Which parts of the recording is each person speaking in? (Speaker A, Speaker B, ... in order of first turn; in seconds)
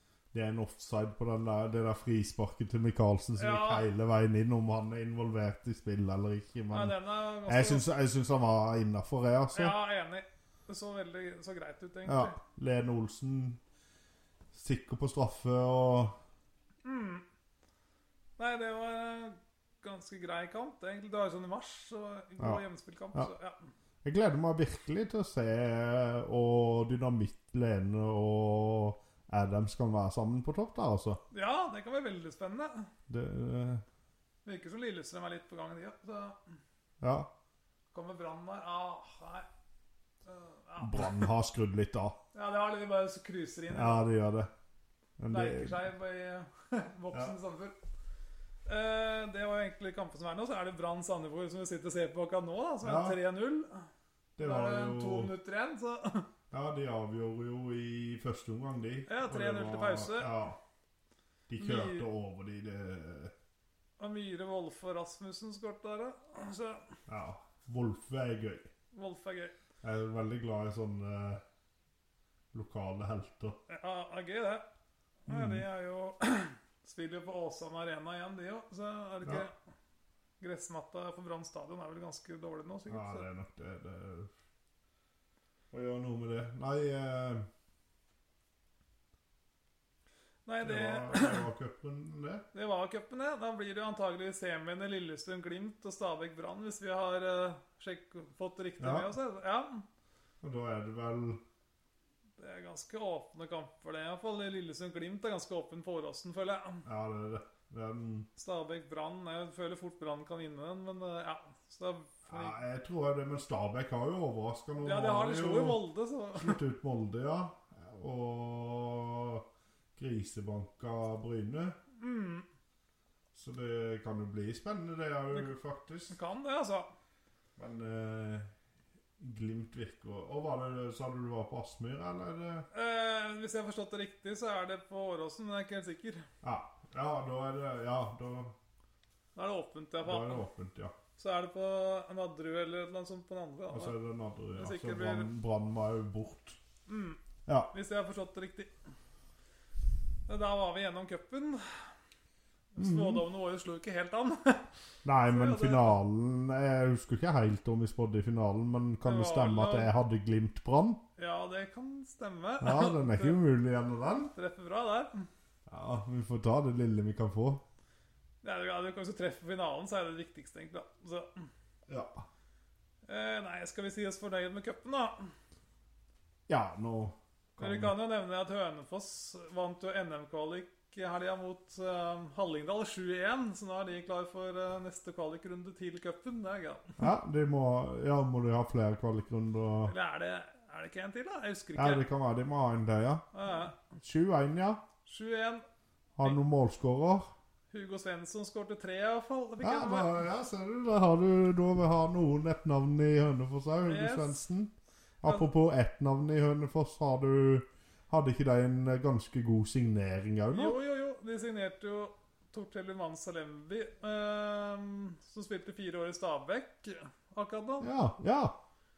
Speaker A: 0.3-9.8, 12.1-13.6, 14.5-16.2, 24.0-31.2, 33.1-33.8, 37.0-37.3, 40.8-42.1, 43.7-44.5, 45.2-45.8, 52.8-53.2, 54.4-55.3, 56.5-60.6, 61.5-63.3, 67.1-68.7, 69.8-71.4, 72.5-73.6, 75.3-75.6, 82.9-84.3, 85.7-87.5, 90.6-92.4, 98.8-99.1, 100.4-101.4, 106.8-108.3, 112.3-121.8, 123.3-126.1, 127.6-128.5, 129.2-132.7, 136.4-138.6, 140.0-140.9, 143.7-146.6, 147.5-147.7, 152.8-153.2, 155.0-161.0, 162.6-164.3, 165.7-167.6, 171.9-172.2, 176.5-177.9, 187.0-189.9, 191.7-193.2, 194.0-194.8, 196.2-197.3, 199.6-210.8, 217.8-218.6
Speaker B: 3.4-3.9, 6.7-7.9, 9.5-12.3, 16.8-17.2, 18.4-23.6, 31.3-32.9, 34.4-36.4, 37.9-39.5, 40.2-41.3, 42.3-44.1, 45.3-47.8, 48.6-53.9, 54.4-56.3, 59.1-60.3, 61.6-62.1, 64.0-66.9, 68.9-69.5, 73.7-74.7, 75.3-79.5, 80.4-83.2, 90.5-91.5, 92.5-99.8, 102.4-106.8, 108.3-112.6, 114.8-116.6, 122.0-122.5, 126.1-126.9, 132.7-136.3, 139.3-140.4, 141.2-144.0, 144.5-145.3, 146.9-147.2, 147.7-148.7, 150.3-151.9, 152.7-154.7, 155.2-155.9, 159.0-159.9, 161.2-163.4, 164.3-165.3, 168.4-171.5, 173.1-175.3, 177.6-187.0, 189.8-192.1, 193.3-193.8, 195.0-195.6, 197.7-200.2, 203.9-204.4, 210.5-217.9